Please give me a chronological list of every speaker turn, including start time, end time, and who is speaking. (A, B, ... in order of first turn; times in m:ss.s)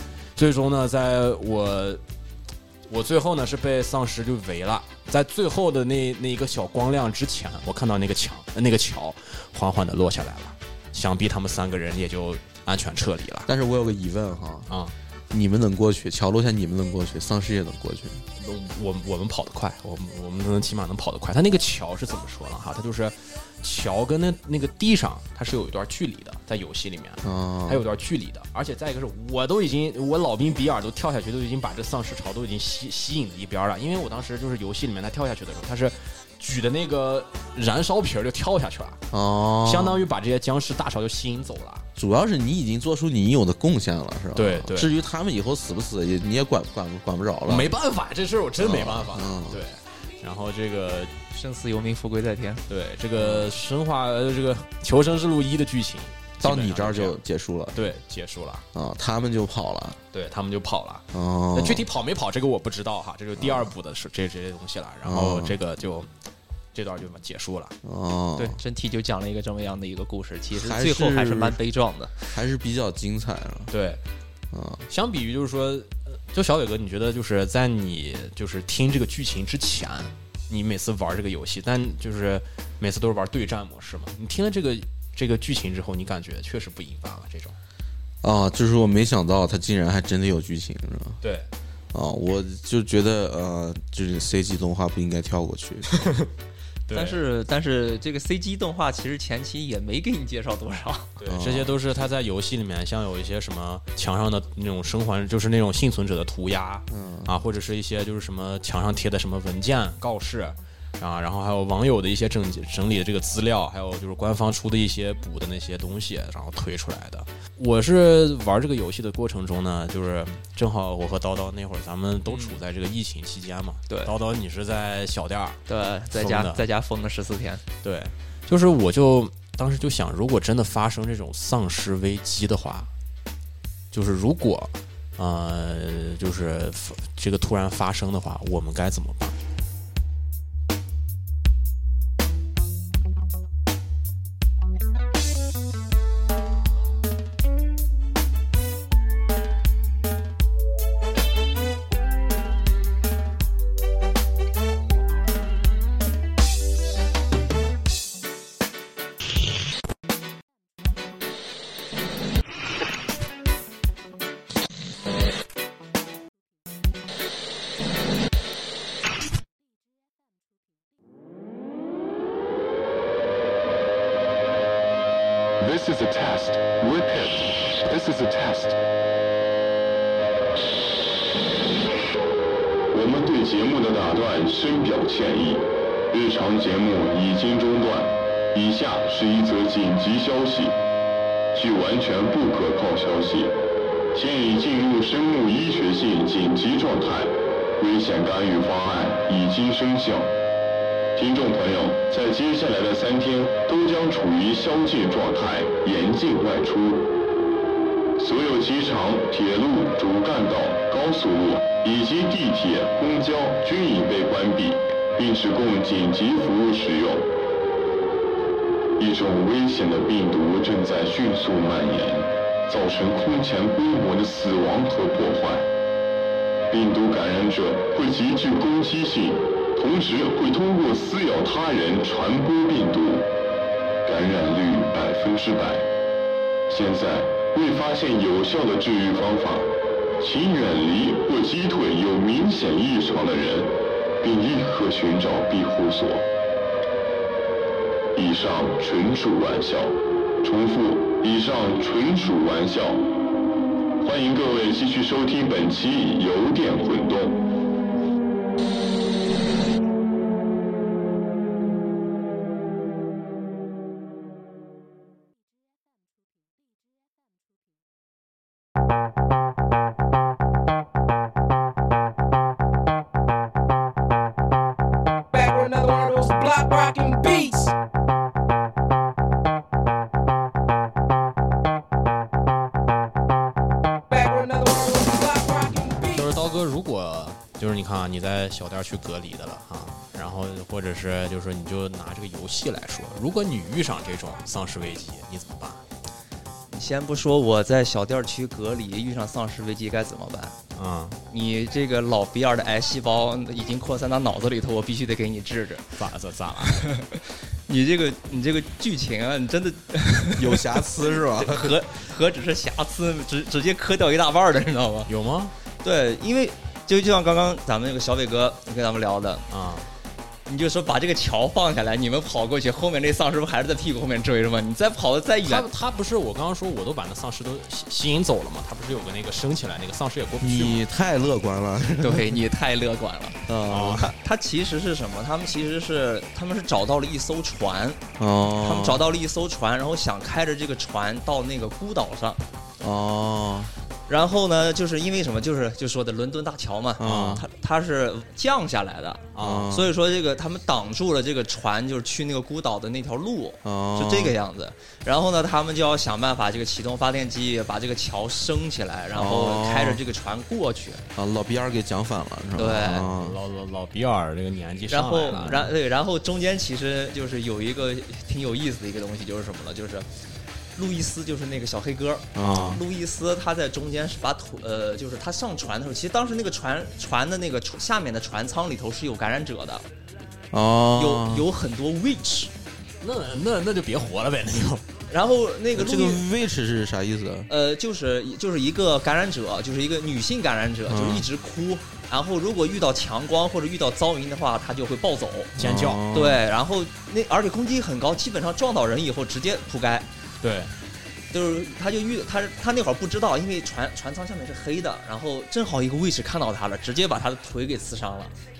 0:00.4-0:02.0 A
0:02.9-0:13.5 A
0:13.4-0:14.7 B
0:15.3-0:18.2 B
0:18.4-0:39.0 A
0:27.2-0:27.8 B
0:39.1-0:40.0 B
0:39.6-0:41.8 A
0:42.0-0:47.7 B
0:44.3-0:44.9 A
0:47.4-0:51.1 A
0:48.6-0:49.6 B
0:51.3-0:52.6 C
0:52.7-0:57.2 A
0:53.2-0:53.6 B
0:56.4-0:57.8 B
0:57.7-0:58.6 A
0:58.7-1:00.0 B
1:00.1-1:06.1 A
1:01.1-1:01.8 B
1:03.4-1:03.7 B
1:05.0-1:05.6 B
1:06.7-1:07.7 A
1:07.8-1:08.6 B
1:08.4-1:12.3 C
1:10.5-1:11.6 B
1:12.3-1:13.7 B
1:13.7-1:14.0 A
1:14.5-1:14.8 B
1:14.9-1:27.6 A
1:28.2-1:31.2 B
1:31.2-1:31.5 A
1:31.9-1:35.9 B
1:35.9-1:36.3 A
1:36.9-1:37.2 A
1:36.9-1:41.1 C
1:41.2-2:05.6 A
1:41.2-1:41.7 B
1:46.9-1:47.3 B
2:02.3-2:02.6 C
2:05.7-2:07.6 C
2:06.1-2:06.6 A
2:07.8-2:12.9 A
2:13.9-2:19.4 A
2:55.6-2:58.8 D
3:02.9-3:10.8 D
3:11.5-3:13.5 D
3:14.1-3:20.3 D
3:21.1-3:27.1 D
3:28.2-3:37.3 D
3:39.0-3:45.7 D
3:46.7-3:53.3 D
3:54.0-3:55.9 D
3:56.7-3:59.7 D
4:00.2-4:06.2 D
4:08.1-4:13.0 D
4:14.0-4:17.4 D
4:35.3-4:37.7 E
4:44.1-4:46.3 E
4:46.1-4:55.8 A
4:56.7-5:00.5 C
5:00.7-5:01.2 A
5:01.3-5:05.9 C
5:06.0-5:06.9 A
5:06.7-5:15.1 C
5:10.4-5:11.8 B
5:15.1-5:15.5 A
5:15.8-5:19.4 C
5:19.5-5:19.9 A
5:20.5-5:25.7 C
5:25.4-5:30.8 A
5:30.4-5:32.4 B
5:32.0-5:33.4 C
5:33.5-5:34.1 B
5:33.7-5:34.1 A
5:34.1-5:38.0 C
5:38.2-5:39.0 B
5:38.6-5:42.4 C
5:42.8-5:43.7 B
5:44.1-6:01.0 C
5:47.0-5:47.4 B
5:47.0-5:47.4 A
5:49.3-5:49.7 A
5:49.4-5:49.9 B
5:53.6-5:54.3 B
5:59.1-6:00.0 B
6:01.2-6:03.4 B
6:02.6-6:03.0 C
6:02.8-6:05.7 A
6:04.9-6:10.1 C
6:10.8-6:19.8 C
6:12.3-6:12.8 B
6:12.4-6:12.8 A
6:20.5-6:21.5 B
6:21.0-6:22.5 C
6:23.0-6:24.8 A
6:25.1-6:26.2 C
6:25.7-6:27.5 B
6:27.5-6:35.5 C
6:30.9-6:31.3 B
6:35.6-6:36.0 A
6:35.6-6:36.4 B
6:36.1-6:40.1 C
6:40.4-6:40.7 A
6:41.3-6:48.3 C